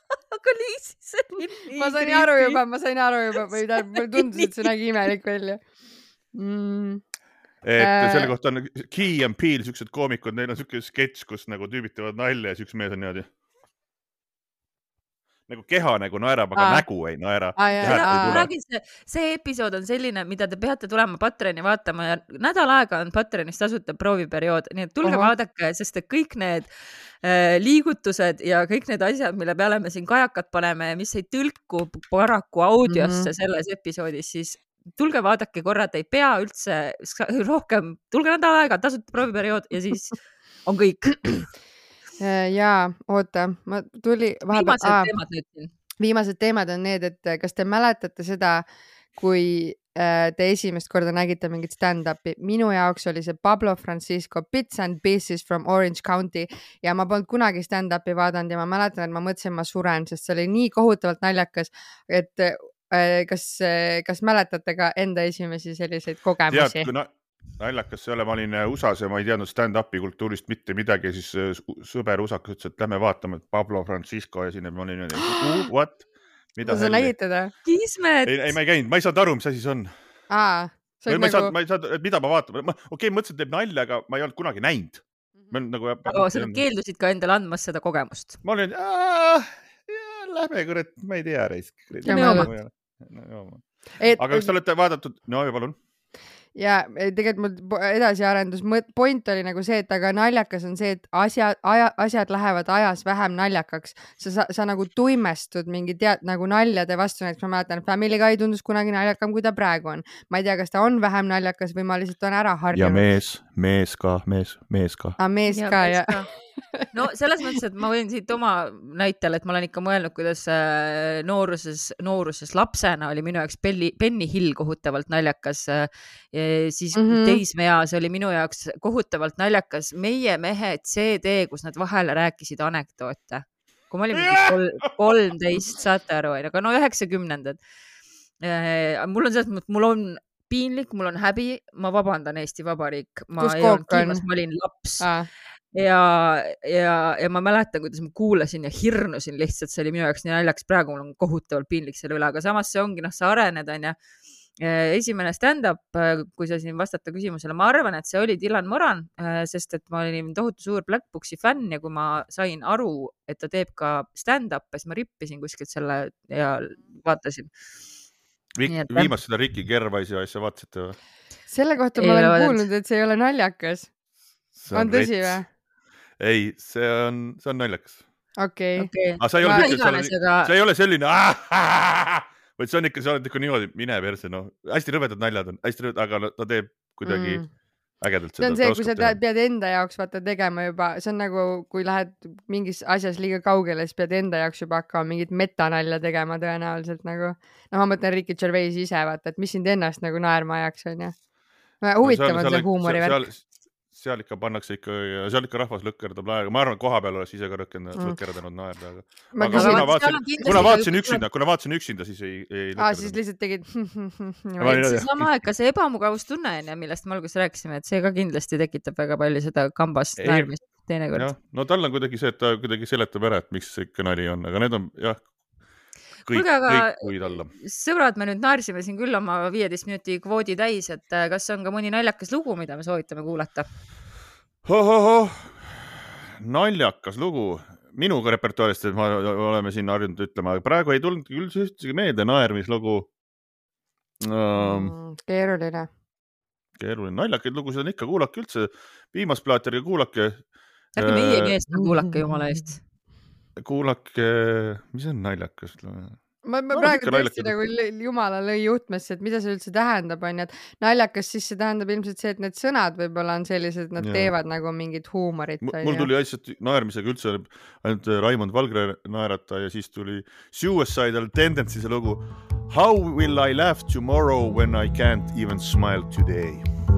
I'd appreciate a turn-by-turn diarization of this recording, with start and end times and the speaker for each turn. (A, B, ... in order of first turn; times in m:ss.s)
0:00.3-0:02.6 A
0:01.7-0:05.6 B
0:03.4-0:04.7 A
0:06.3-0:07.0 B
0:07.6-0:13.3 C
0:07.8-0:08.3 B
0:15.5-0:18.5 C
0:16.5-0:16.8 B
0:17.6-0:18.4 B
0:17.8-0:41.5 A
0:25.0-0:25.3 B
0:32.9-0:33.3 B
0:42.2-0:45.1 B
0:44.5-0:45.7 A
0:46.0-0:48.6 B
0:49.2-1:06.9 B
1:06.5-1:16.0 C
1:15.2-1:15.7 B
1:16.6-1:17.1 C
1:16.6-1:17.5 B
1:17.6-1:18.5 A
1:18.2-1:19.9 C
1:20.3-1:21.5 B
1:21.1-1:26.6 C
1:26.0-1:28.4 A
1:28.4-1:35.8 C
1:32.0-1:32.5 B
1:32.0-1:32.5 A
1:34.0-1:34.5 B
1:36.6-1:53.1 B
1:52.7-1:55.2 C
1:55.2-1:56.9 B
1:55.5-1:56.3 A
1:56.9-2:17.6 A
2:06.9-2:07.4 B
2:14.1-2:14.9 C
2:18.4-2:25.1 A
2:23.4-2:24.2 B
2:25.0-2:25.3 B
2:25.7-2:34.0 A
2:34.6-2:47.5 A
2:48.6-2:51.0 C
2:48.6-2:49.1 A
2:51.5-2:53.9 B
2:52.0-2:52.6 A
2:54.6-2:55.4 C
2:54.7-2:55.5 B
2:56.2-2:58.0 C
2:58.4-2:59.7 B
2:58.8-3:00.5 A
2:59.2-3:07.4 C
3:07.0-3:07.5 B
3:08.0-3:09.2 C
3:08.4-3:21.2 B
3:21.8-3:23.2 B
3:22.0-3:33.2 C
3:29.3-3:30.4 B
3:29.5-3:31.2 A
3:32.8-3:35.0 B
3:34.6-3:35.3 C
3:34.7-3:41.3 A
3:40.2-3:40.5 C
3:41.1-3:45.3 C
3:46.2-3:53.7 A
3:46.3-3:47.5 C
3:54.6-4:03.1 C
4:04.2-4:04.9 C
4:04.6-4:05.9 B
4:06.8-4:10.4 C
4:11.0-4:12.8 A
4:11.0-4:11.5 C
4:13.6-4:17.5 C
4:16.4-4:26.1 B
4:24.0-4:24.3 C
4:25.6-4:36.6 C